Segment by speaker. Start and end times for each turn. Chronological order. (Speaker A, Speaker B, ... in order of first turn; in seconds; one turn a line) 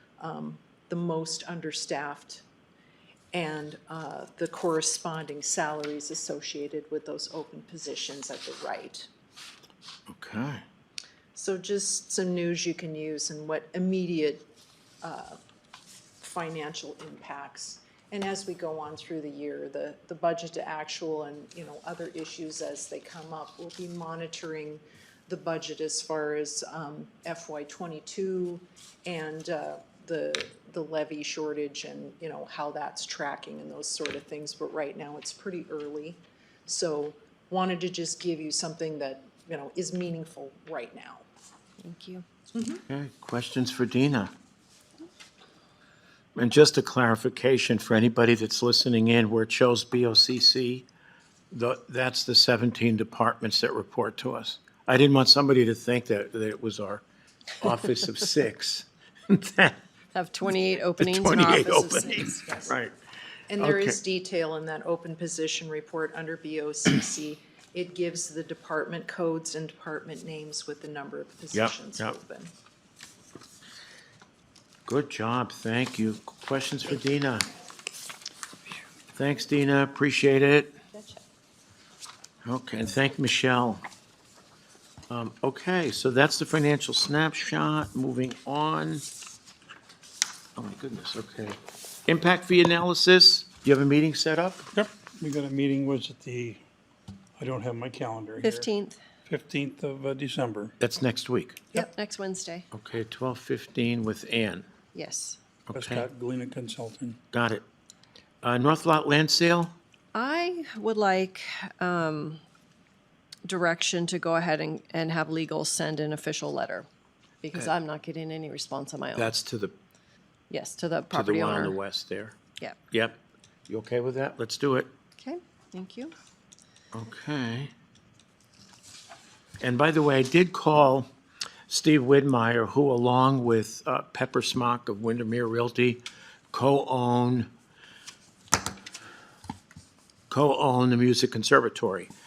Speaker A: 0.2-2.4
Speaker A: 3.3-9.1
Speaker B: 10.1-10.6
Speaker A: 11.3-14.5
Speaker A: 15.0-15.4
Speaker A: 16.2-41.2
Speaker C: 41.8-42.2
Speaker A: 42.5-42.8
Speaker B: 42.9-44.3
Speaker B: 46.4-50.9
Speaker B: 51.5-57.0
Speaker B: 57.6-59.8
Speaker C: 60.1-62.5
Speaker B: 61.0-62.9
Speaker A: 63.5-72.5
Speaker B: 63.6-64.0
Speaker B: 71.5-72.2
Speaker B: 74.9-77.5
Speaker B: 79.2-80.8
Speaker C: 80.9-81.2
Speaker B: 82.4-83.8
Speaker B: 85.1-89.0
Speaker B: 90.6-94.7
Speaker D: 94.7-96.6
Speaker D: 97.4-98.7
Speaker C: 98.4-99.0
Speaker D: 99.3-100.8
Speaker B: 100.8-101.6
Speaker C: 101.7-102.7
Speaker B: 102.7-104.7
Speaker C: 104.9-105.4
Speaker B: 105.7-106.1
Speaker D: 105.8-107.2
Speaker B: 107.3-107.6
Speaker B: 108.4-109.8
Speaker C: 110.1-112.4
Speaker C: 113.5-116.9
Speaker C: 117.4-119.3
Speaker B: 119.2-119.8
Speaker C: 120.5-121.8
Speaker B: 121.1-122.4
Speaker B: 122.9-124.9
Speaker C: 125.2-126.1
Speaker B: 126.9-127.7
Speaker B: 129.6-131.1
Speaker B: 131.7-137.5
Speaker B: 140.3-142.1